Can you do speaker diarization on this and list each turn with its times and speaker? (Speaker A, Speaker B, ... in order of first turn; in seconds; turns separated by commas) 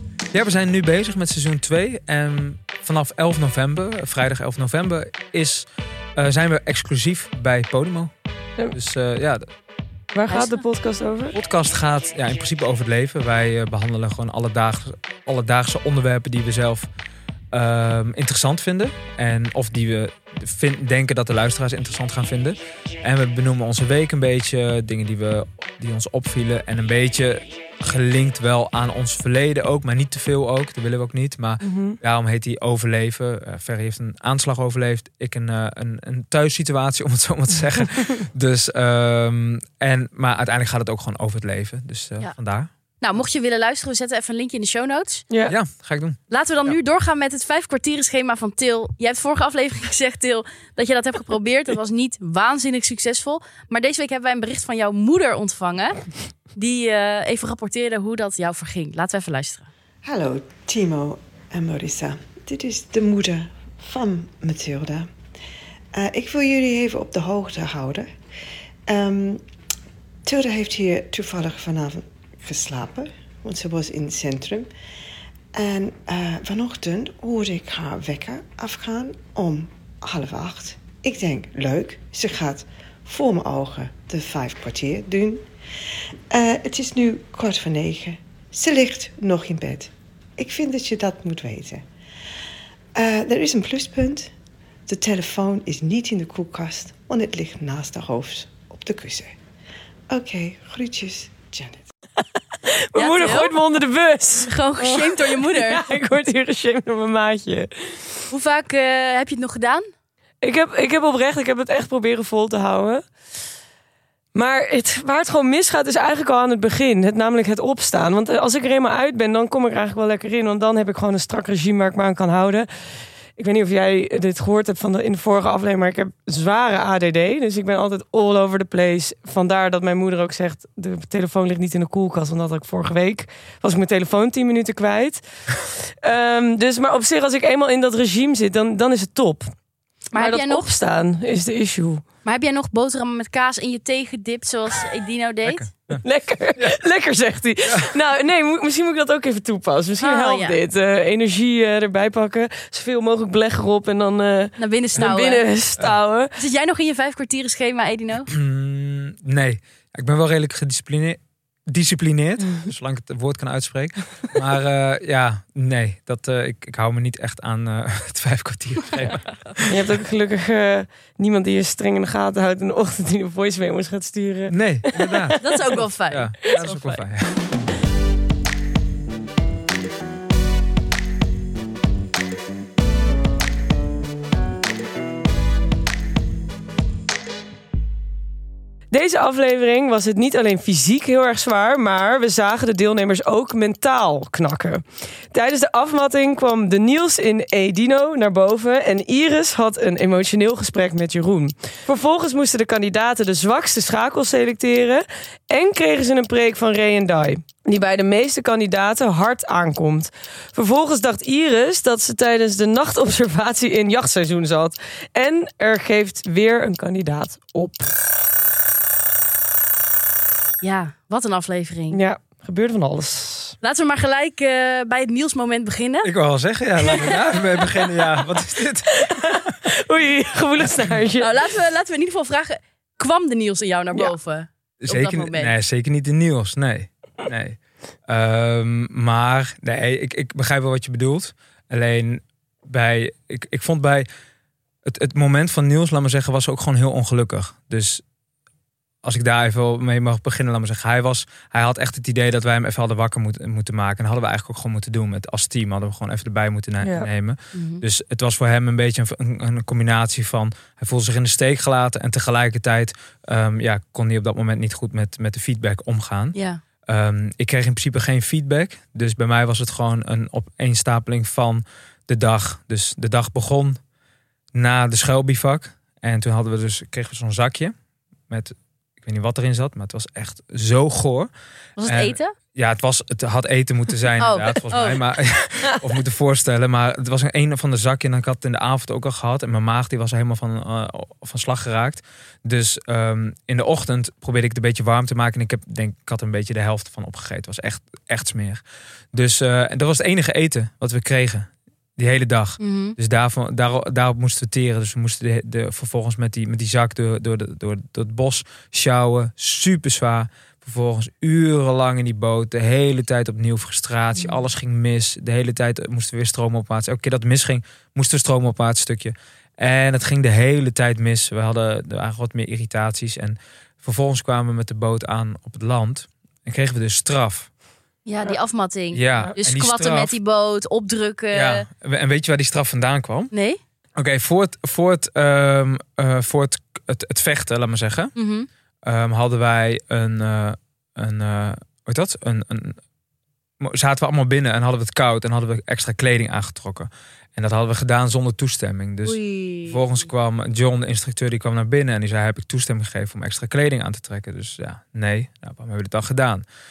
Speaker A: 0.3-8.1, Speaker A: 8.7-9.5, Speaker B: 10.1-11.4, Speaker C: 10.3-10.6, Speaker A: 11.3-16.9, Speaker A: 17.5-42.7, Speaker B: 31.6-32.0, Speaker C: 43.0-45.3, Speaker A: 45.5-46.2, Speaker C: 46.3-59.7, Speaker D: 60.0-65.1, Speaker D: 65.9-68.1, Speaker D: 68.9-69.4, Speaker D: 70.3-74.7, Speaker D: 75.5-85.4, Speaker D: 86.3-91.8, Speaker D: 93.0-94.3, Speaker D: 94.9-99.4, Speaker D: 100.1-101.8, Speaker B: 102.7-108.0, Speaker C: 103.0-103.6, Speaker C: 104.5-105.9, Speaker C: 108.3-109.8, Speaker B: 110.4-113.1, Speaker B: 114.3-122.7, Speaker B: 123.4-135.2, Speaker B: 135.8-139.5, Speaker C: 140.1-140.7, Speaker B: 140.1-142.0, Speaker C: 142.2-145.7, Speaker A: 145.5-146.0, Speaker B: 146.0-156.3, Speaker C: 150.0-150.6, Speaker C: 154.6-155.5, Speaker C: 156.4-158.3, Speaker A: 158.3-169.7, Speaker B: 169.7-175.6, Speaker A: 174.5-175.4, Speaker C: 175.4-177.0, Speaker A: 176.1-177.4, Speaker B: 188.9-217.9, Speaker C: 220.6-222.0, Speaker B: 221.9-223.6, Speaker C: 223.6-226.1, Speaker A: 226.0-229.5, Speaker B: 226.9-227.2, Speaker C: 226.9-227.2, Speaker B: 228.9-231.3, Speaker A: 230.6-231.0, Speaker C: 231.2-235.5, Speaker A: 234.8-244.1, Speaker A: 244.8-248.0, Speaker A: 249.0-266.4, Speaker B: 256.8-257.1, Speaker C: 257.5-257.8, Speaker C: 266.4-266.6, Speaker A: 266.9-273.8, Speaker A: 274.5-277.7, Speaker A: 278.3-281.3, Speaker C: 281.8-282.3, Speaker A: 281.8-298.6, Speaker C: 284.2-285.1, Speaker A: 299.1-327.5, Speaker C: 302.6-302.9, Speaker C: 328.1-331.6, Speaker A: 328.9-330.1, Speaker A: 331.3-333.3, Speaker C: 333.3-333.6, Speaker A: 334.0-338.1, Speaker C: 338.2-338.5, Speaker A: 338.8-342.8, Speaker A: 343.6-356.4, Speaker C: 349.1-349.9